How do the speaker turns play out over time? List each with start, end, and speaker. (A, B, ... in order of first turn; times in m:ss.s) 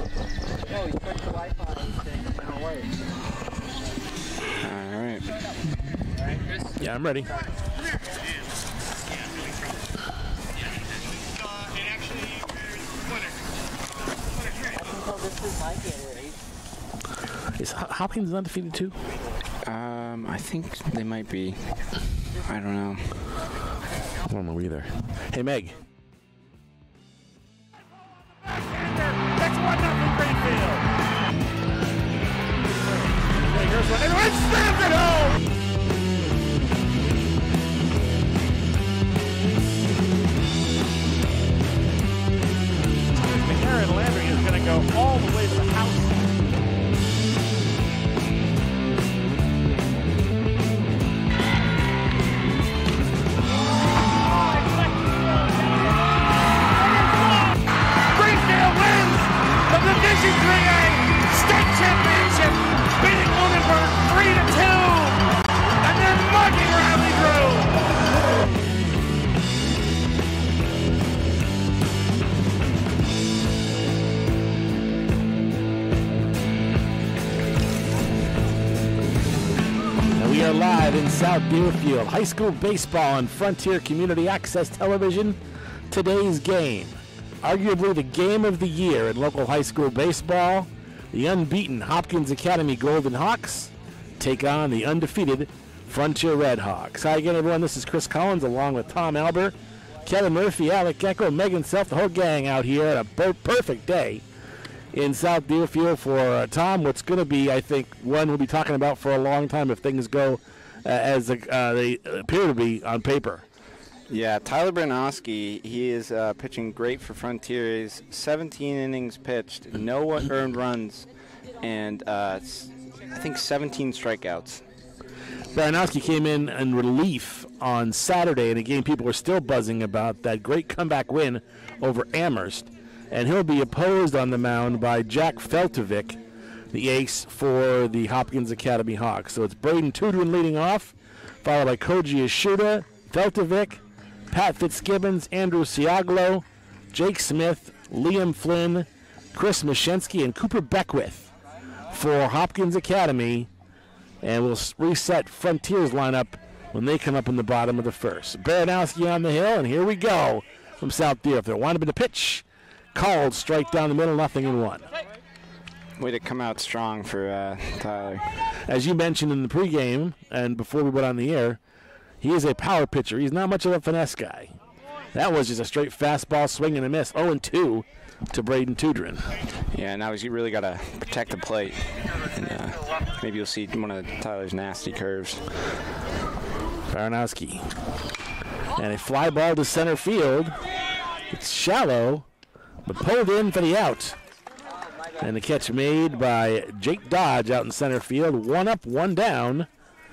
0:00.7-0:02.9 A
0:04.6-0:05.4 B
0:06.8-0:07.3 C
0:14.8-0:16.3 A
0:17.6-0:19.0 C
0:19.6-0:21.7 B
0:22.4-0:23.3 B
0:24.3-0:25.8 C
0:28.6-0:30.8 D
0:33.1-0:35.4 D
0:43.2-0:46.4 D
0:54.3-0:55.9 D
0:56.7-1:07.8 D
1:20.2-1:39.5 C
1:40.0-1:44.2 C
1:44.9-1:53.4 C
1:54.1-2:01.1 B
2:01.6-2:04.6 B
2:05.5-2:16.2 C
2:16.7-2:31.3 C
2:31.9-2:33.5 C
2:34.2-2:44.9 C
2:46.0-2:48.3 B
2:48.7-2:51.6 C
2:52.2-2:54.6 C
2:55.1-2:59.3 C
2:59.7-3:05.5 B
3:06.9-3:07.7 C
3:08.8-3:10.6 C
3:11.3-3:12.3 C
3:12.8-3:14.2 C
3:15.2-3:19.7 C